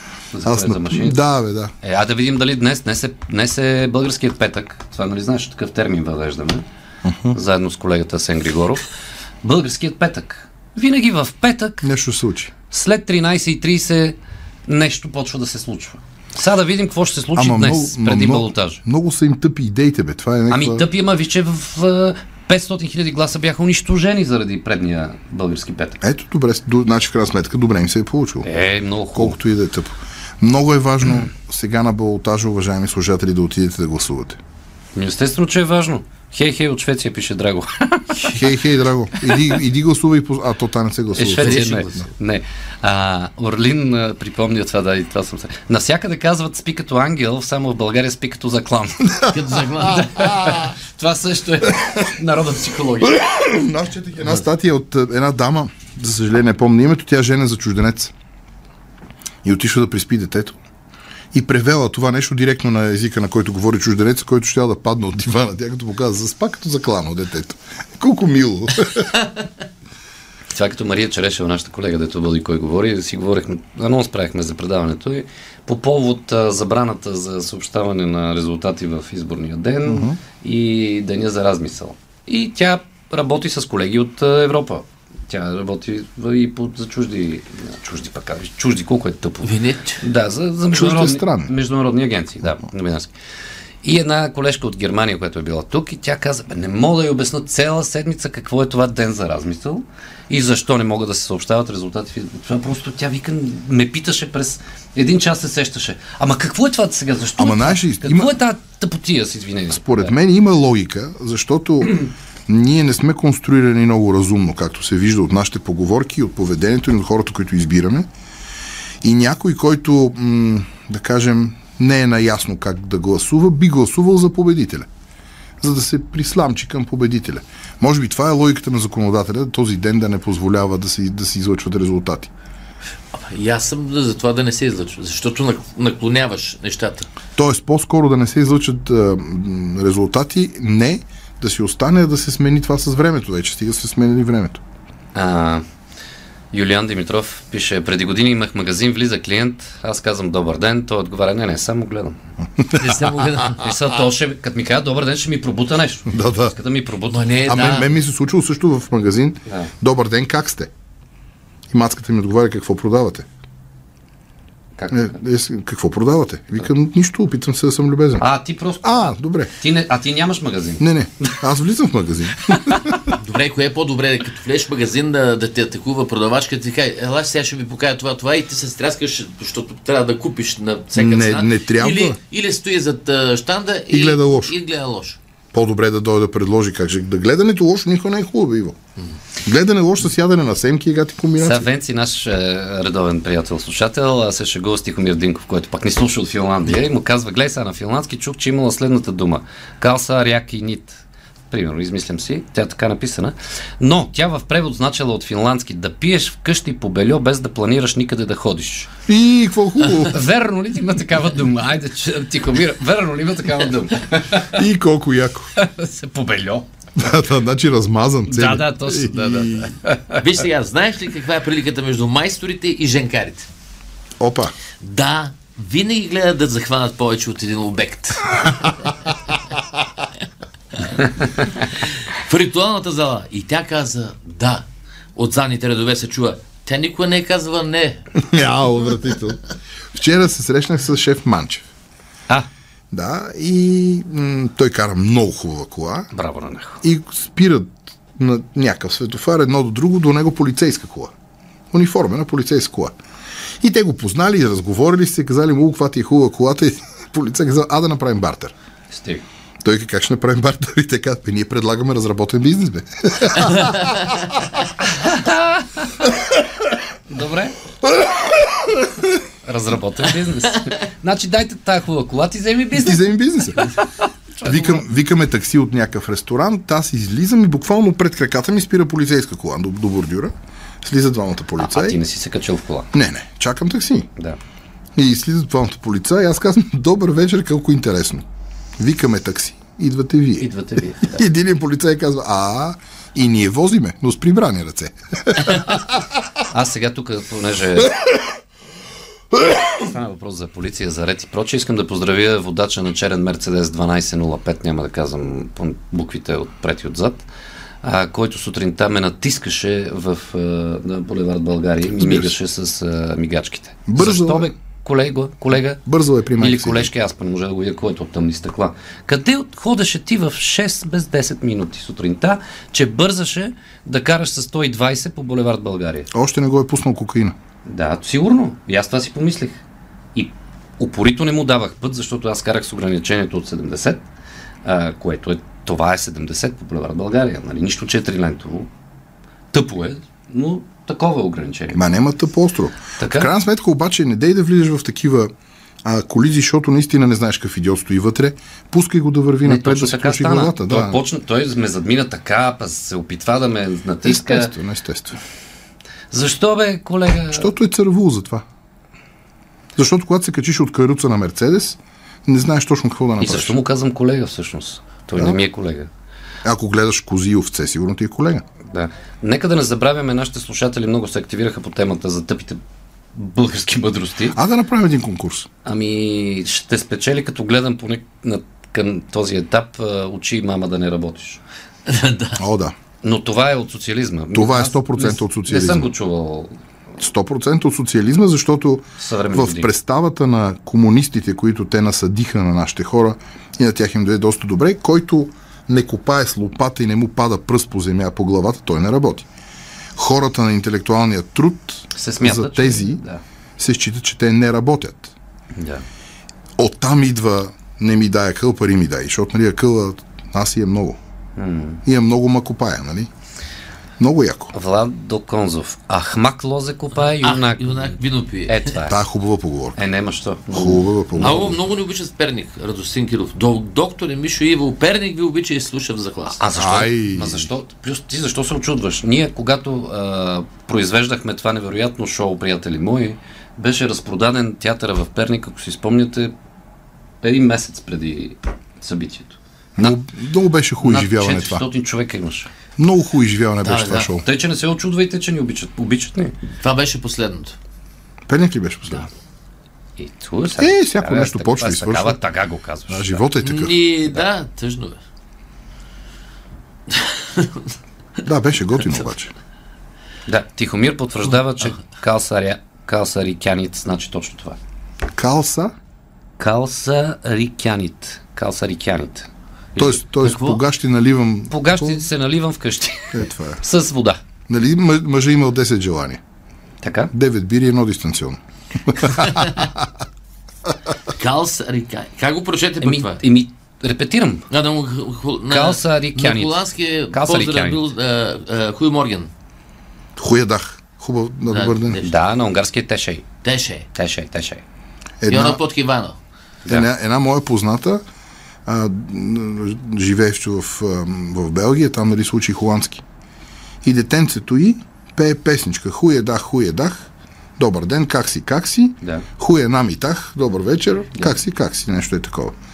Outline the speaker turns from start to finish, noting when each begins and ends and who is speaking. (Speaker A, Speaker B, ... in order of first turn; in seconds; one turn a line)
Speaker A: 0.3-1.2
Speaker B: 0.4-1.7
Speaker A: 1.8-6.6
Speaker B: 7.0-7.4
Speaker A: 7.3-8.8
Speaker A: 9.4-11.9
Speaker B: 11.8-12.5
Speaker A: 12.7-14.2
Speaker A: 14.7-18.8
Speaker B: 17.4-20.9
Speaker A: 20.5-26.0
Speaker B: 26.0-28.5
Speaker A: 28.4-29.4
Speaker B: 29.1-34.4
Speaker A: 34.9-38.5
Speaker B: 38.3-42.1
Speaker A: 39.2-39.5
Speaker A: 41.1-53.2
Speaker C: 41.3-42.0
Speaker C: 49.3-50.1
Speaker B: 53.1-58.1
Speaker B: 59.4-60.6
Speaker B: 61.3-69.1
Speaker A: 70.5-93.1
Speaker B: 79.8-80.2
Speaker C: 89.4-90.0
Speaker B: 90.7-91.5
Speaker A: 93.8-110.2
Speaker B: 107.4-108.3
Speaker B: 109.7-118.1
Speaker B: 119.0-124.9
Speaker B: 125.6-132.3
Speaker C: 133.1-137.1
Speaker B: 137.3-144.6
Speaker A: 145.1-145.6
Speaker A: 146.5-152.2
Speaker C: 152.7-153.6
Speaker A: 153.6-157.3
Speaker B: 156.1-156.5
Speaker C: 157.1-157.9
Speaker B: 157.4-160.7
Speaker A: 159.4-159.7
Speaker B: 161.7-163.2
Speaker A: 164.8-165.2
Speaker B: 164.9-168.2
Speaker A: 168.2-171.3
Speaker B: 168.8-169.5
Speaker B: 170.8-173.1
Speaker C: 173.2-185.2
Speaker B: 180.9-182.2
Speaker B: 183.9-184.5
Speaker B: 185.5-188.8
Speaker B: 189.4-191.7
Speaker A: 191.3-208.9
Speaker B: 209.1-210.2
Speaker A: 210.0-214.6
Speaker B: 214.4-215.5
Speaker A: 215.6-216.7
Speaker B: 216.9-219.7
Speaker A: 218.2-220.2
Speaker C: 220.2-223.5
Speaker B: 224.2-224.5
Speaker C: 224.8-228.7
Speaker C: 230.9-238.0
Speaker B: 238.1-239.4
Speaker B: 239.9-241.7
Speaker B: 242.9-246.1
Speaker A: 246.1-246.8
Speaker B: 246.8-251.1
Speaker B: 251.7-252.9
Speaker B: 253.6-258.5
Speaker A: 258.9-259.2
Speaker B: 259.6-264.1
Speaker A: 264.9-265.9
Speaker A: 267.1-267.6
Speaker A: 269.4-274.8
Speaker B: 272.7-273.6
Speaker B: 274.4-282.0
Speaker A: 281.6-282.9
Speaker B: 282.9-284.1
Speaker B: 284.9-288.2
Speaker B: 288.8-290.5
Speaker A: 290.4-291.2
Speaker B: 291.0-295.9
Speaker A: 296.5-297.9
Speaker A: 299.7-307.2
Speaker A: 307.8-315.8
Speaker B: 311.9-312.3
Speaker B: 313.9-314.5
Speaker B: 315.8-316.9
Speaker A: 316.4-326.1
Speaker B: 326.1-327.3
Speaker A: 327.6-329.6
Speaker A: 330.1-334.0
Speaker A: 334.6-338.7
Speaker A: 339.5-341.8
Speaker B: 341.7-345.3
Speaker A: 343.0-343.3
Speaker B: 345.8-351.0
Speaker A: 349.4-354.5
Speaker B: 354.0-355.2
Speaker A: 356.1-357.5
Speaker B: 357.3-358.4
Speaker B: 359.8-363.6
Speaker A: 363.2-365.9
Speaker B: 365.1-365.4
Speaker B: 366.4-368.4
Speaker A: 368.7-372.6
Speaker A: 373.1-374.4
Speaker B: 374.3-375.5
Speaker A: 375.6-381.4
Speaker C: 381.9-382.4
Speaker B: 382.4-382.7
Speaker A: 383.0-386.5
Speaker B: 384.3-385.9
Speaker B: 387.0-399.3
Speaker A: 389.0-389.7
Speaker B: 399.9-403.0
Speaker A: 401.9-403.2
Speaker B: 403.6-405.1
Speaker A: 405.6-405.8
Speaker B: 406.6-411.0
Speaker A: 411.4-411.8
Speaker B: 411.8-413.1
Speaker B: 414.0-414.5
Speaker A: 414.5-417.9
Speaker C: 417.2-418.7
Speaker A: 418.5-419.0
Speaker B: 418.9-419.8
Speaker A: 419.7-421.5
Speaker B: 420.5-421.6
Speaker C: 421.2-426.4
Speaker A: 426.3-436.3
Speaker B: 426.5-427.5
Speaker A: 437.2-440.0
Speaker B: 439.8-441.6
Speaker A: 440.8-442.5
Speaker B: 442.8-444.2
Speaker C: 443.6-444.1
Speaker A: 444.2-446.3
Speaker C: 446.6-447.5
Speaker B: 448.3-449.1
Speaker A: 450.0-453.2
Speaker B: 450.6-452.2
Speaker B: 452.9-453.8
Speaker C: 453.4-455.0
Speaker C: 456.9-457.6
Speaker B: 458.2-459.3
Speaker A: 460.3-464.6
Speaker B: 465.1-465.7
Speaker A: 466.4-470.4
Speaker B: 469.8-472.1
Speaker C: 470.2-470.6
Speaker A: 471.5-474.2
Speaker B: 473.1-473.6
Speaker B: 474.5-476.2
Speaker A: 476.8-477.1
Speaker B: 477.1-479.9
Speaker C: 481.1-483.2
Speaker A: 482.8-484.4
Speaker C: 484.5-489.3
Speaker A: 485.5-487.8
Speaker B: 490.1-492.0
Speaker C: 491.5-492.1
Speaker A: 492.0-493.3
Speaker C: 493.4-493.9
Speaker A: 493.9-494.6
Speaker B: 495.2-495.6
Speaker C: 495.3-496.2
Speaker A: 496.6-496.9
Speaker B: 496.7-498.0
Speaker B: 498.6-503.0
Speaker B: 503.8-507.0
Speaker B: 507.6-512.5